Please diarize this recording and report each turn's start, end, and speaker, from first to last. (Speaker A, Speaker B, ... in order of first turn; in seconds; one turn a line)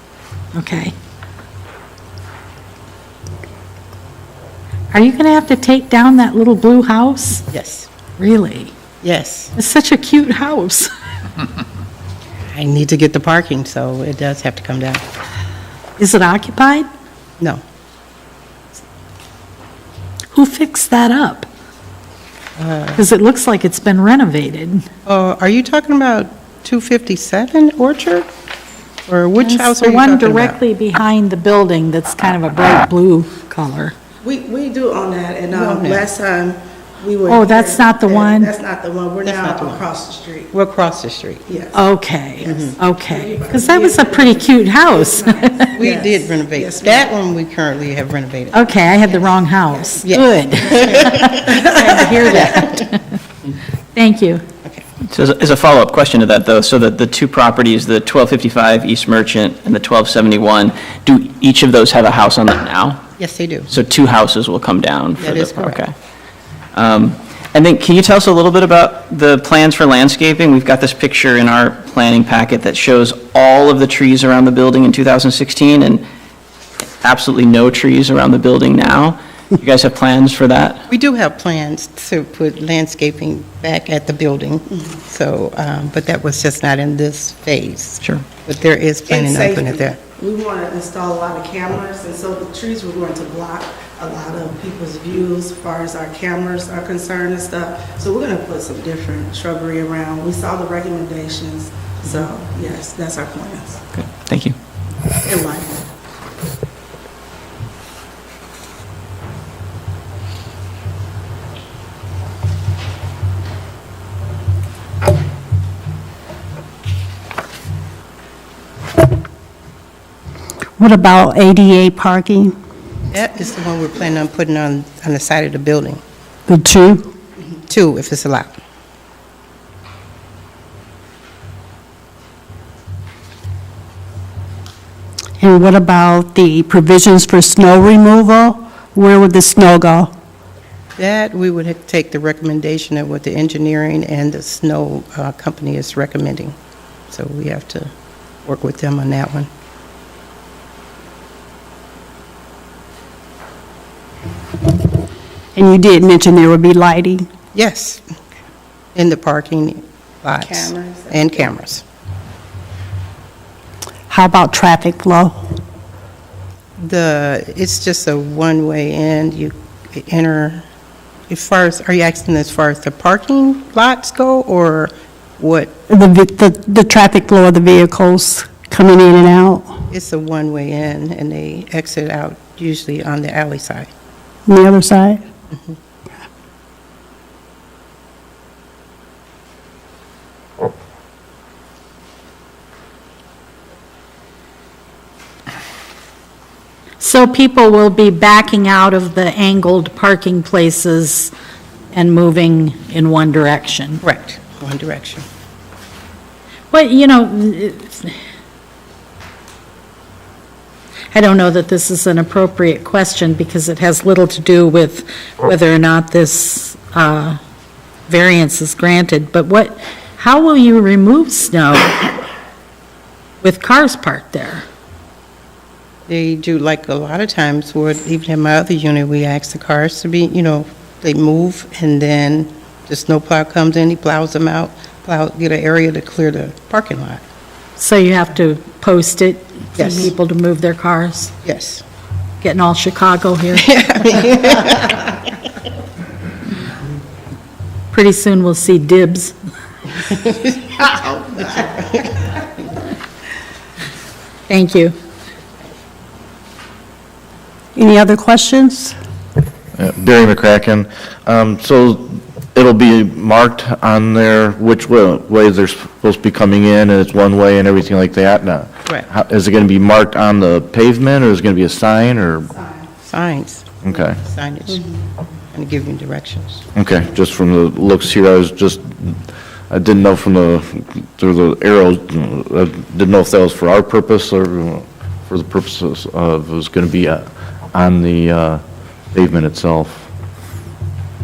Speaker A: 0.5-0.9
Speaker A: 4.9-7.5
Speaker B: 7.5-7.9
Speaker A: 8.2-8.7
Speaker B: 9.0-9.5
Speaker A: 9.6-10.9
Speaker B: 12.5-15.0
Speaker A: 16.0-16.9
Speaker A: 20.3-21.5
Speaker B: 22.6-23.0
Speaker A: 23.0-24.9
Speaker B: 25.1-28.3
Speaker B: 29.1-30.6
Speaker A: 29.4-33.9
Speaker C: 34.2-40.5
Speaker B: 35.5-36.1
Speaker A: 37.3-38.5
Speaker B: 39.2-39.9
Speaker B: 40.5-41.4
Speaker C: 41.5-41.8
Speaker A: 41.7-45.8
Speaker C: 42.4-47.1
Speaker B: 42.4-42.8
Speaker B: 45.8-48.7
Speaker A: 48.5-53.0
Speaker C: 49.0-50.0
Speaker B: 50.0-51.4
Speaker C: 50.7-52.5
Speaker B: 52.3-52.8
Speaker A: 54.0-54.4
Speaker D: 55.1-63.0
Speaker B: 63.2-63.7
Speaker D: 63.7-65.9
Speaker B: 65.2-65.8
Speaker D: 66.8-76.0
Speaker D: 77.0-80.8
Speaker B: 80.9-90.0
Speaker C: 89.1-103.8
Speaker D: 103.9-104.6
Speaker C: 105.2-105.8
Speaker E: 120.8-122.5
Speaker B: 123.1-126.0
Speaker E: 126.5-127.1
Speaker B: 127.7-128.6
Speaker E: 135.4-140.1
Speaker B: 141.0-146.6
Speaker B: 147.1-147.9
Speaker B: 148.4-149.5
Speaker E: 155.6-157.3
Speaker B: 157.5-158.2
Speaker B: 158.9-161.8
Speaker C: 160.4-161.4
Speaker E: 164.1-165.4
Speaker B: 166.8-170.6
Speaker B: 171.3-175.8
Speaker E: 175.9-179.7
Speaker B: 179.9-183.9
Speaker E: 184.5-185.2
Speaker A: 197.0-201.3
Speaker A: 201.9-204.0
Speaker B: 204.0-205.2
Speaker A: 206.7-208.2
Speaker A: 211.1-217.4
Speaker A: 218.1-222.1
Speaker A: 223.4-224.7
Speaker B: 226.1-237.2
Speaker A: 237.8-241.3
Speaker B: 239.8-240.1
Speaker B: 241.4-241.8
Speaker A: 242.4-244.4
Speaker B: 243.8-245.1
Speaker A: 247.9-249.3
Speaker A: 254.5-254.9
Speaker E: 257.8-258.9
Speaker F: 259.8-272.5
Speaker B: 273.1-274.9
Speaker F: 273.9-274.2
Speaker B: 275.5-276.6
Speaker F: 276.7-290.1